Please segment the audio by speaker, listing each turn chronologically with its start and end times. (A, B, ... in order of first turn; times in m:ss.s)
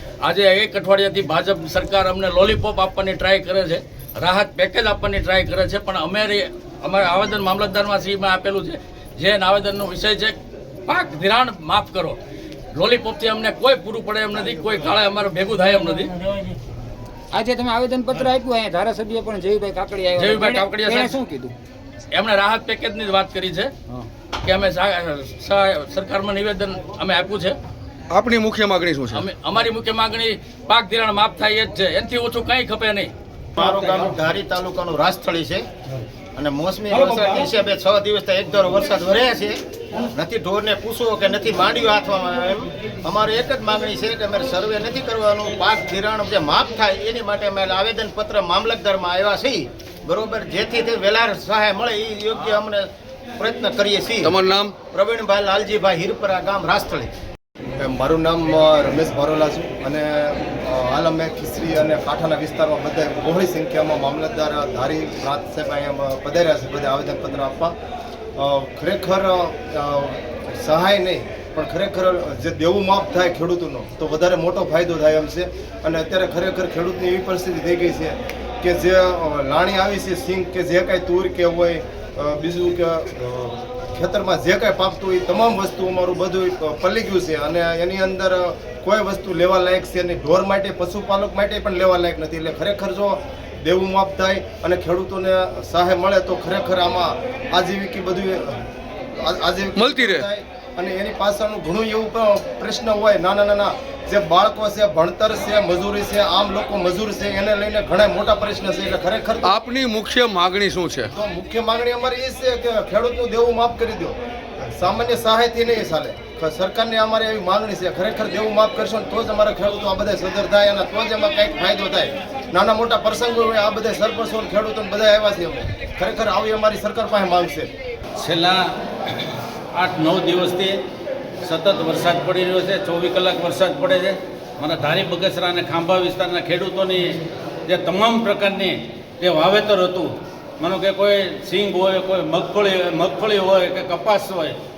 0:00.2-0:10.4 A
0:10.9-0:12.2 A
0:12.7-0:16.1 A
0:17.3-0:21.5 B
0:20.2-0:21.2 A
0:22.1-0:23.7 A
0:24.4-0:27.6 A
0:28.1-0:29.3 C
0:29.1-0:33.1 A
0:33.6-0:35.7 D
0:36.4-0:39.6 D
0:40.1-0:52.9 D
0:53.4-0:54.4 D
0:54.2-0:54.7 C
0:54.9-0:57.1 D
0:57.8-1:07.7 E
1:08.4-1:38.6 E
1:39.2-1:49.5 E
1:39.8-1:40.3 C
1:49.4-1:51.1 C
1:51.2-1:54.2 E
1:54.7-2:07.7 E
2:08.2-2:08.7 F
2:09.8-2:10.8 F
2:11.4-2:17.1 F
2:17.6-2:24.6 F